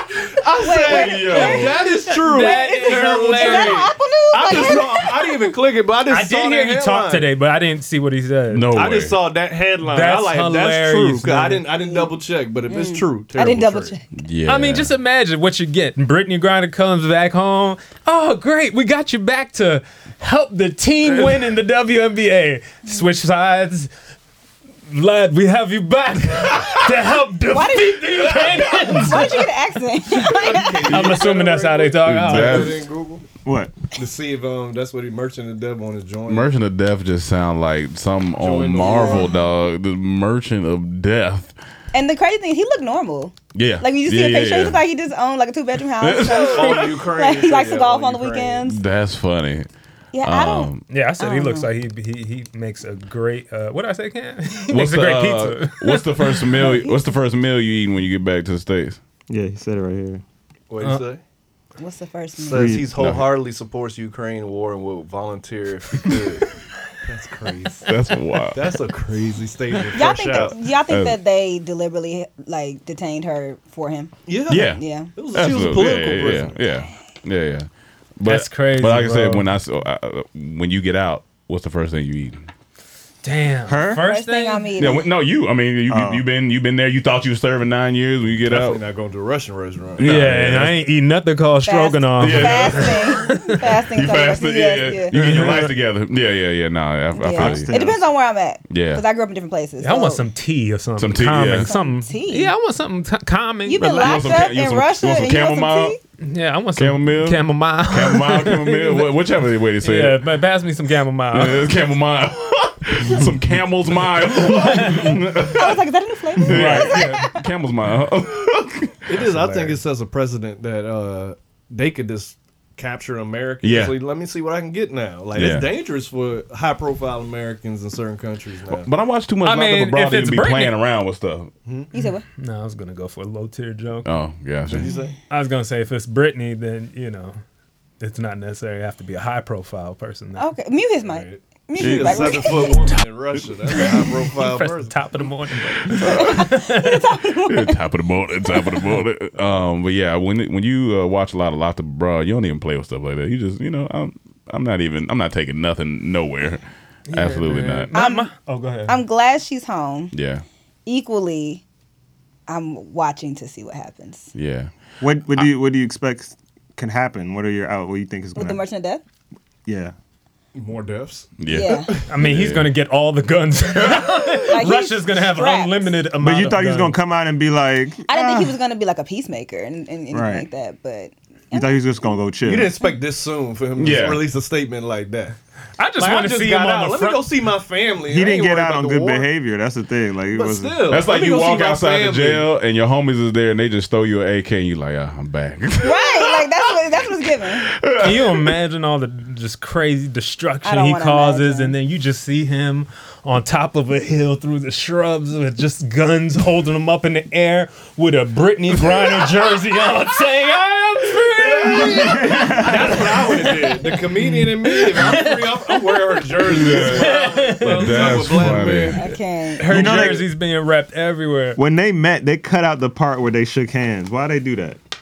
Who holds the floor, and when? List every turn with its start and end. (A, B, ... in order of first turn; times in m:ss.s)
0:00.4-0:07.3 A
0:00.6-0:05.2 B
0:00.7-0:01.9 C
0:02.1-0:03.9 D
0:06.1-0:08.7 D
0:08.5-0:09.2 C
0:08.7-0:14.0 A
0:09.8-0:11.6 D
0:11.8-0:12.1 B
0:12.7-0:14.0 B
0:14.1-0:14.9 C
0:14.5-0:23.9 D
0:21.1-0:21.4 C
0:24.9-0:29.5 D
0:27.5-0:30.9 B
0:30.2-0:33.2 A
0:30.9-0:32.8 D
0:32.0-0:32.8 C
0:33.4-0:33.9 E
0:34.0-0:36.5 A
0:36.3-0:41.5 C
0:38.4-0:39.3 A
0:38.8-0:39.4 B
0:41.9-0:48.8 B
0:43.5-0:44.8 C
0:46.0-0:47.0 C
0:46.4-0:48.6 A
0:48.6-0:49.7 C
0:50.1-0:51.7 B
0:50.2-0:50.9 C
0:50.9-0:56.5 D
0:54.7-0:59.0 C
0:56.6-0:57.0 B
0:59.3-1:00.2 E
1:00.7-1:01.2 A
1:01.8-1:02.7 B
1:02.4-1:06.5 A
1:02.5-1:02.9 E
1:03.0-1:03.3 C
1:07.0-1:07.9 A
1:07.8-1:08.7 C
1:08.5-1:10.6 A
1:09.9-1:15.1 B
1:10.9-1:11.2 C
1:14.3-1:16.6 A
1:14.5-1:22.4 C
1:18.2-1:19.5 D
1:23.2-1:24.7 D
1:23.7-1:24.0 E
1:24.0-1:25.1 B
1:24.8-1:28.8 C
1:25.9-1:26.3 E
1:28.4-1:30.3 A
1:30.0-1:30.8 C
1:30.0-1:33.6 D
1:31.6-1:35.2 B
1:32.2-1:33.1 C
1:33.9-1:37.7 C
1:35.1-1:35.7 D
1:37.2-1:40.2 B
1:37.3-1:38.0 E
1:38.7-1:39.0 C
1:39.8-1:44.4 D
1:41.0-1:41.7 C
1:41.6-1:42.5 B
1:43.6-1:46.0 B
1:43.8-1:46.0 C
1:46.2-1:49.2 D
1:46.8-1:50.2 C
1:49.8-1:51.7 D
1:51.3-1:55.8 C
1:54.3-1:55.2 D
1:55.4-1:57.4 B
1:56.4-1:59.8 C
1:56.4-1:57.2 D
1:59.1-2:08.9 A
2:03.6-2:04.0 C
2:05.3-2:05.7 C
2:08.7-2:11.5 C
2:09.4-2:10.8 D
2:11.6-2:11.9 A
2:11.9-2:12.2 B
2:12.0-2:14.1 D
2:14.0-2:15.0 C
2:14.7-2:15.2 A
2:15.3-2:17.4 D
2:18.0-2:20.5 D
2:20.4-2:22.9 B
2:21.0-2:25.2 A
2:21.8-2:22.7 C
2:23.7-2:27.1 D
2:26.0-2:27.8 B
2:26.0-2:26.4 C
2:27.5-2:38.0 C
2:28.5-2:28.8 B
2:37.1-2:39.0 D
2:37.9-2:38.3 B
2:38.9-2:40.1 B
2:40.1-2:40.4 C
2:40.9-2:41.6 B
2:42.5-2:44.3 B
2:44.4-2:44.7 C
2:45.0-2:48.6 E
2:48.4-2:49.0 B
2:49.7-2:49.9 E
2:50.6-2:52.1 A
2:51.4-2:52.7 C
2:51.5-2:51.9 B
2:52.1-2:57.0 D
2:54.5-2:55.9 B
2:56.2-2:58.6 E
2:58.1-3:01.7 B
3:00.1-3:00.5 E
3:01.5-3:02.8 E
3:02.4-3:05.4 A
3:03.8-3:04.2 C
3:05.8-3:07.3 D
3:06.0-3:09.3 A
3:08.1-3:10.9 E
3:10.3-3:12.5 A
3:10.9-3:16.8 C
3:15.8-3:17.7 B
3:17.5-3:18.6 C
3:18.0-3:38.5 D
3:20.6-3:21.7 B
3:31.8-3:39.1 A
3:31.9-3:33.0 E
3:36.4-3:39.0 C
3:38.9-3:39.7 B
3:39.6-3:41.6 D
3:39.6-3:40.3 E
3:39.8-3:40.2 A
3:41.6-3:44.8 E